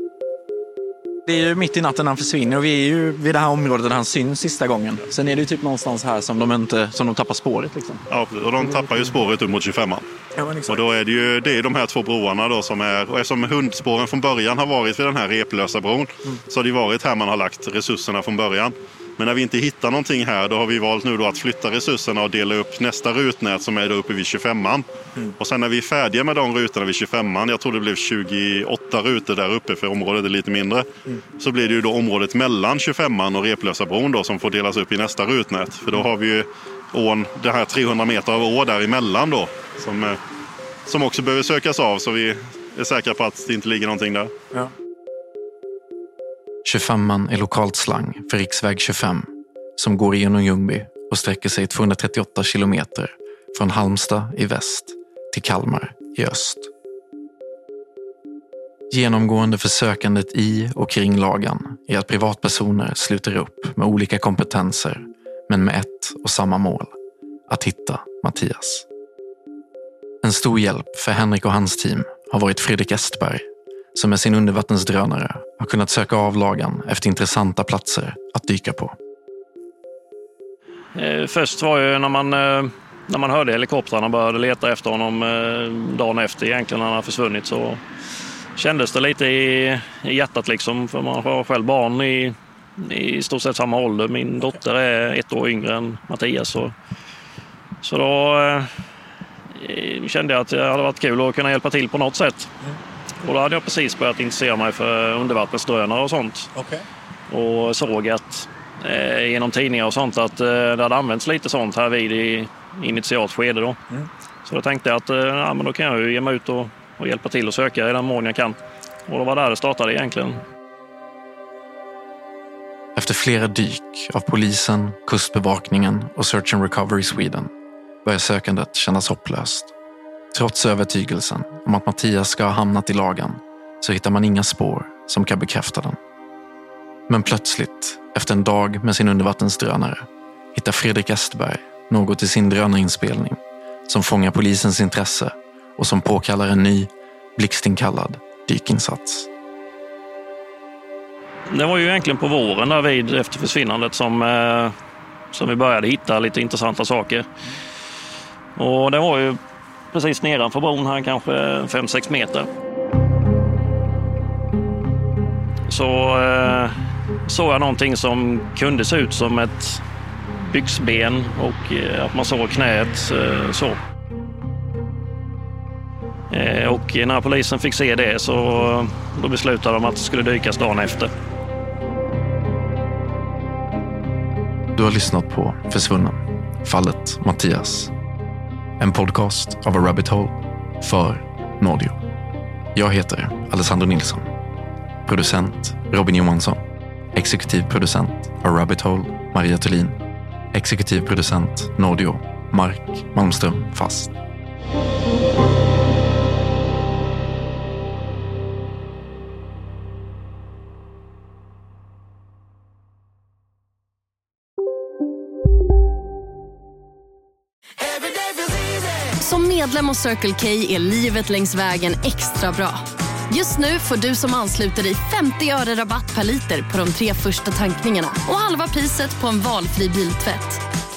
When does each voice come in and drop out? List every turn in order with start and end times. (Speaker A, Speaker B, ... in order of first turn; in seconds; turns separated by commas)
Speaker A: 1.2-8.0, Speaker B: 8.1-10.1, Speaker A: 8.6-9.1, Speaker A: 10.3-10.8, Speaker B: 10.7-24.9, Speaker B: 25.4-40.2, Speaker B: 40.9-44.3, Speaker C: 46.6-56.7, Speaker C: 58.9-66.9, Speaker C: 67.5-68.8, Speaker C: 70.2-78.9, Speaker D: 81.0-87.8, Speaker D: 88.6-96.7, Speaker D: 97.8-98.7, Speaker D: 99.5-102.5, Speaker D: 103.2-106.5, Speaker A: 106.5-106.8, Speaker D: 107.3-113.8, Speaker D: 114.5-120.4, Speaker C: 122.9-127.5, Speaker C: 128.0-129.7, Speaker C: 130.3-136.0, Speaker C: 137.1-149.3, Speaker D: 151.5-154.7, Speaker D: 155.3-157.2, Speaker D: 158.6-159.4, Speaker D: 159.9-162.5, Speaker D: 165.7-166.7, Speaker D: 167.3-169.8, Speaker D: 170.5-173.8, Speaker D: 176.3-181.1, Speaker C: 184.7-187.9, Speaker C: 188.8-192.0, Speaker C: 192.7-194.3, Speaker C: 195.0-196.6, Speaker C: 197.1-200.0, Speaker C: 200.5-204.1, Speaker E: 219.2-230.6